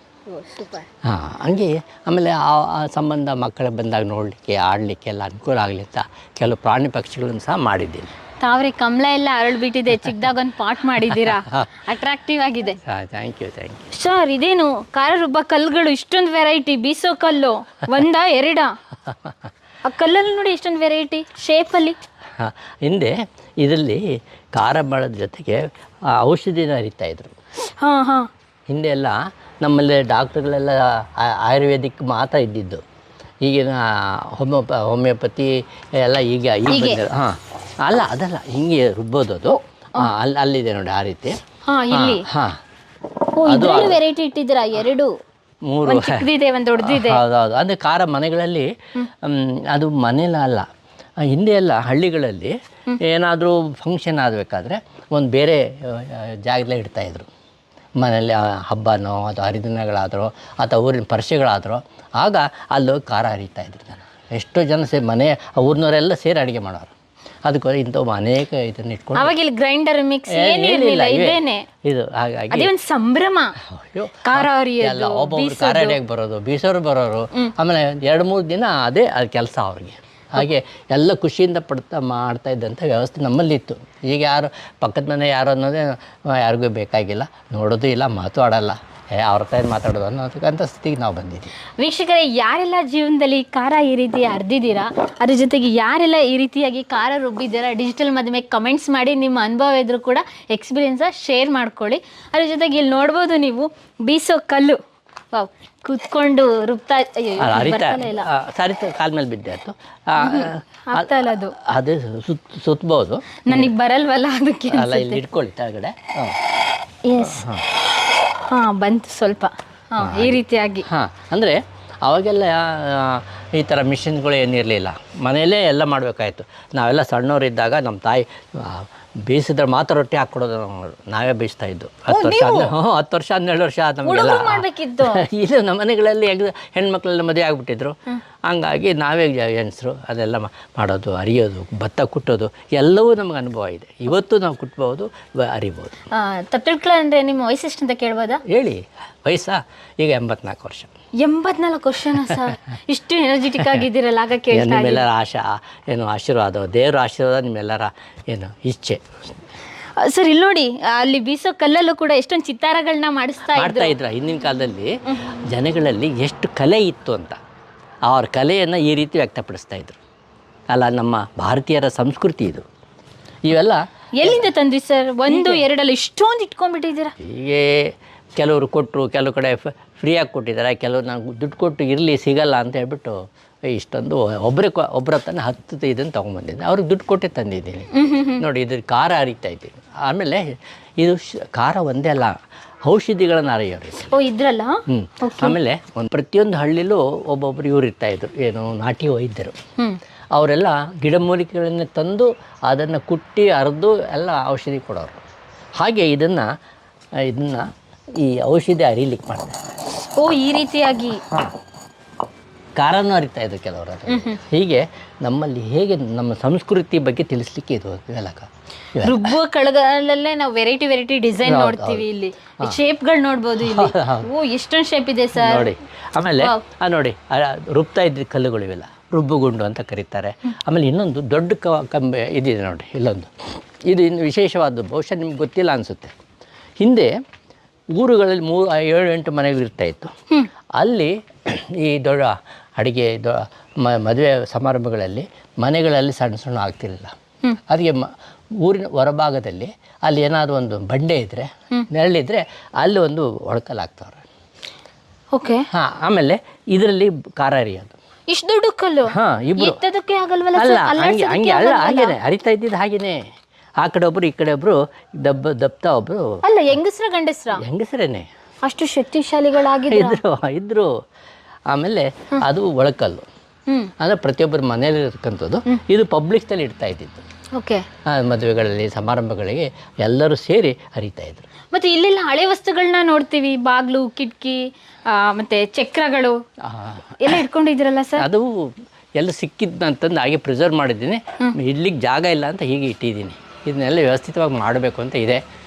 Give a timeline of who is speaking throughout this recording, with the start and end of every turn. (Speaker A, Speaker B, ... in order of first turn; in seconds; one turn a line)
Speaker A: 0.3-0.9
Speaker B: 1.0-8.1
Speaker A: 8.4-12.8
Speaker B: 11.2-11.6
Speaker B: 12.8-13.9
Speaker A: 13.9-18.8
Speaker A: 19.8-22.0
Speaker B: 22.4-27.3
Speaker A: 27.7-28.3
Speaker B: 28.7-32.8
Speaker B: 33.4-41.4
Speaker A: 36.7-37.0
Speaker A: 41.6-42.2
Speaker B: 41.9-42.6
Speaker A: 43.4-45.1
Speaker B: 43.5-44.0
Speaker B: 45.7-46.3
Speaker A: 45.8-47.2
Speaker B: 46.8-50.7
Speaker B: 51.2-57.3
Speaker B: 58.0-66.9
Speaker B: 67.4-69.3
Speaker A: 69.1-71.7
Speaker B: 70.3-72.7
Speaker A: 72.5-73.5
Speaker B: 73.6-91.5
Speaker A: 74.2-76.0
Speaker A: 91.8-104.8
Speaker A: 105.3-108.3
Speaker B: 107.4-113.7
Speaker A: 110.2-111.5
Speaker A: 113.5-115.2
Speaker B: 114.7-116.4
Speaker A: 117.0-117.4
Speaker B: 117.2-117.7
Speaker A: 118.5-120.8
Speaker B: 120.0-145.9
Speaker A: 132.1-132.7
Speaker A: 134.0-135.2
Speaker A: 146.1-148.4
Speaker B: 148.5-150.9
Speaker A: 151.2-155.0
Speaker B: 154.5-159.0
Speaker A: 160.0-163.9
Speaker B: 163.5-167.4
Speaker B: 168.1-170.0
Speaker B: 170.7-172.7
Speaker B: 173.4-174.4
Speaker A: 174.2-177.1
Speaker B: 175.3-175.6
Speaker B: 177.2-183.2
Speaker B: 183.7-194.1
Speaker A: 187.9-188.4
Speaker A: 194.1-195.6
Speaker B: 194.9-199.6
Speaker B: 200.3-205.2
Speaker B: 205.8-206.5
Speaker B: 207.2-209.6
Speaker A: 210.0-211.2
Speaker B: 212.8-219.4
Speaker A: 214.1-214.4
Speaker A: 219.0-225.7
Speaker B: 221.4-222.1
Speaker B: 223.6-224.3
Speaker B: 225.3-236.1
Speaker B: 236.8-237.1
Speaker B: 237.9-240.1
Speaker B: 240.8-247.1
Speaker B: 247.7-254.2
Speaker A: 255.3-255.7
Speaker B: 255.7-258.0
Speaker A: 258.3-262.1
Speaker B: 259.1-259.8
Speaker B: 260.5-263.2
Speaker B: 263.8-266.4
Speaker A: 266.4-267.6
Speaker B: 267.6-268.3
Speaker A: 268.6-270.2
Speaker B: 269.9-270.9
Speaker B: 271.7-273.2
Speaker B: 274.0-277.2
Speaker A: 277.5-277.9
Speaker B: 278.1-281.5
Speaker A: 281.7-286.4
Speaker B: 286.6-287.4
Speaker A: 287.2-288.2
Speaker B: 288.2-295.4